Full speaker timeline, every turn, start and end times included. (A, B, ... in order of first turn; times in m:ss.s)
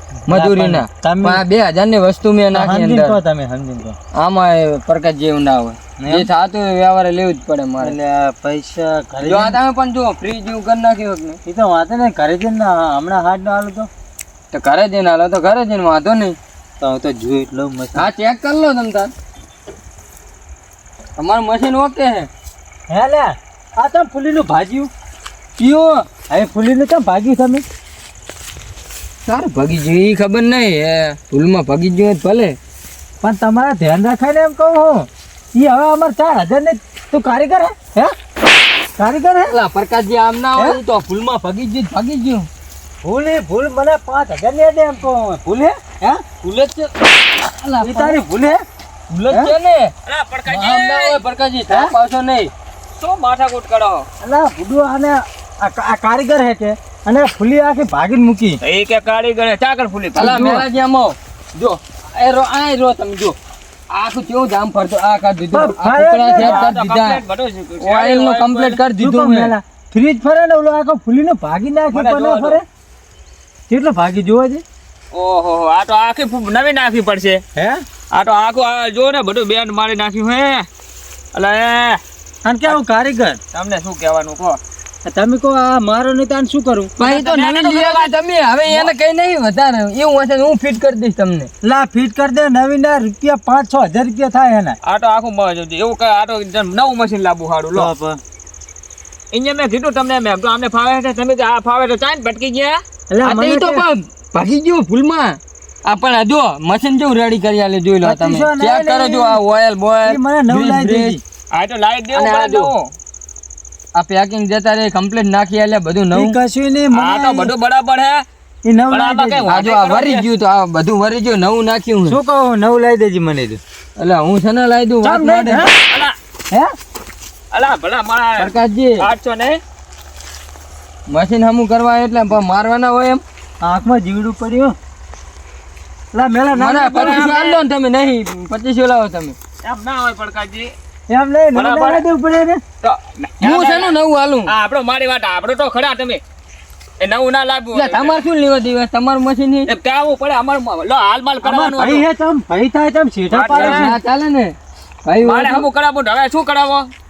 0:00.3-0:01.4 A
0:00.3-0:03.2 B
0:02.5-0:04.0 A
0:04.2-0:08.0 B
0:06.0-0:06.3 A
0:07.8-0:09.6 A
0:09.2-0:11.4 B
0:11.4-0:13.9 A
0:14.5-0:16.4 B
0:16.8-0:18.1 A
0:18.0-0:19.1 B
0:21.2-0:22.3 B
0:22.9-0:24.9 A
0:25.6-0:26.1 B
0:26.3-0:27.6 A
0:29.3-0:32.6 B
0:33.2-0:38.1 A
0:39.0-0:39.5 A
0:39.5-0:42.5 B
0:43.0-0:46.2 A
0:46.4-0:48.2 B
0:47.8-0:48.6 A
0:49.1-0:49.9 B
0:49.3-0:49.5 A
0:50.1-0:51.2 C
0:50.5-0:52.5 B
0:53.0-0:54.1 C
0:54.2-0:58.6 A
0:58.6-1:00.4 C
1:00.2-1:00.7 A
1:00.2-1:03.4 B
1:03.9-1:07.2 B
1:05.5-1:06.7 A
1:06.4-1:08.8 C
1:07.8-1:09.5 B
1:09.0-1:12.6 A
1:11.9-1:12.6 C
1:13.7-1:14.6 A
1:15.1-1:17.4 C
1:17.6-1:17.8 A
1:18.1-1:20.7 C
1:21.3-1:22.0 C
1:22.4-1:23.4 A
1:23.5-1:24.6 C
1:25.1-1:26.9 A
1:27.0-1:31.5 B
1:27.0-1:28.1 C
1:28.7-1:28.9 C
1:31.6-1:34.8 A
1:34.8-1:37.9 C
1:37.7-1:38.2 A
1:39.3-1:42.8 C
1:43.1-1:43.9 A
1:43.2-1:51.2 B
1:48.0-1:49.4 A
1:50.0-1:51.2 A
1:51.5-1:52.9 C
1:52.2-1:52.7 B
1:54.0-1:56.4 B
1:56.1-1:57.5 A
1:56.9-1:58.2 C
1:58.6-1:59.5 A
1:58.9-2:00.3 C
1:59.5-2:02.2 B
2:02.1-2:03.6 A
2:04.0-2:05.7 B
2:05.0-2:05.7 A
2:05.9-2:06.2 C
2:07.5-2:09.6 C
2:08.4-2:09.0 B
2:11.1-2:13.2 B
2:13.6-2:14.8 A
2:16.1-2:17.3 A
2:16.5-2:19.4 B
2:16.9-2:17.6 C
2:19.6-2:20.7 C
2:21.1-2:22.6 A
2:21.6-2:22.0 C
2:22.8-2:23.9 C
2:23.4-2:24.5 B
2:24.5-2:26.2 C
2:27.0-2:28.2 C
2:27.7-2:29.7 B
2:29.7-2:32.0 C
2:31.4-2:34.0 A
2:33.3-2:33.9 C
2:33.5-2:35.7 B
2:35.2-2:36.9 C